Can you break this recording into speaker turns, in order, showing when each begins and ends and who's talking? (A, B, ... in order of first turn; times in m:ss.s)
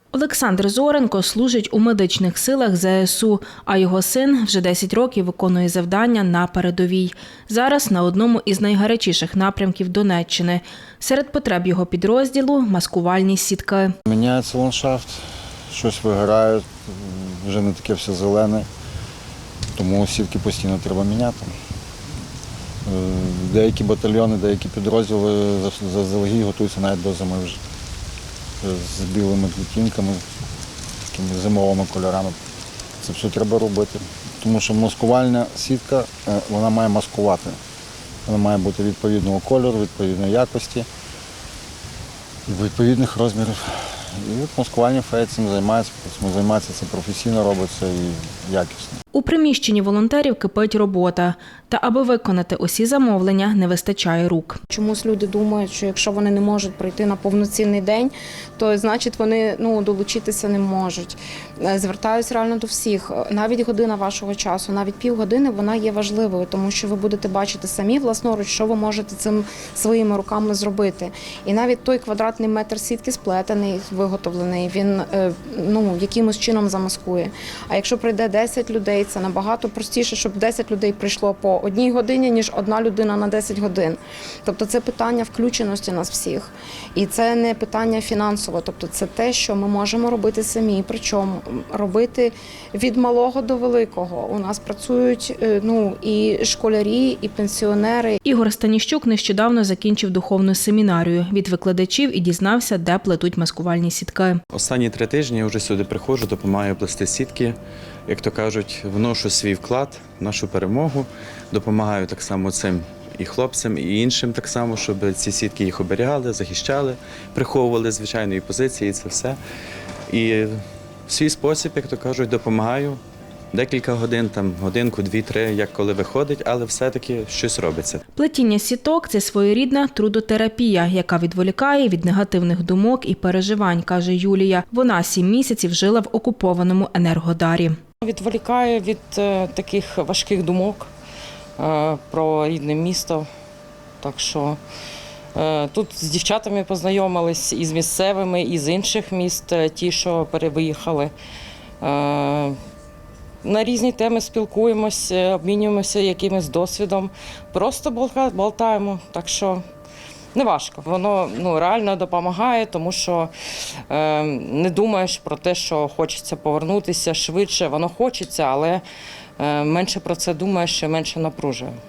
0:00.1-0:13.9 A
0:14.1-0:18.7 B
0:19.8-0:21.5 B
0:22.8-0:27.6 B
0:28.6-0:30.2 B
0:31.1-0:32.4 B
0:33.0-0:37.6 B
0:38.2-0:40.9 B
0:42.5-0:49.0 B
0:49.1-0:54.6 A
0:54.7-1:38.2 C
1:38.2-1:44.4 A
1:44.5-1:47.6 D
1:48.1-1:59.4 D
2:00.1-2:03.0 D
2:03.5-2:08.0 D
2:08.1-2:17.8 A
2:18.0-2:20.9 E
2:21.6-2:23.2 E
2:24.0-2:24.6 E
2:25.3-2:31.1 E
2:31.8-2:32.6 E
2:33.4-2:39.6 E
2:40.3-2:43.3 E
2:43.9-2:48.8 E
2:49.4-2:51.8 E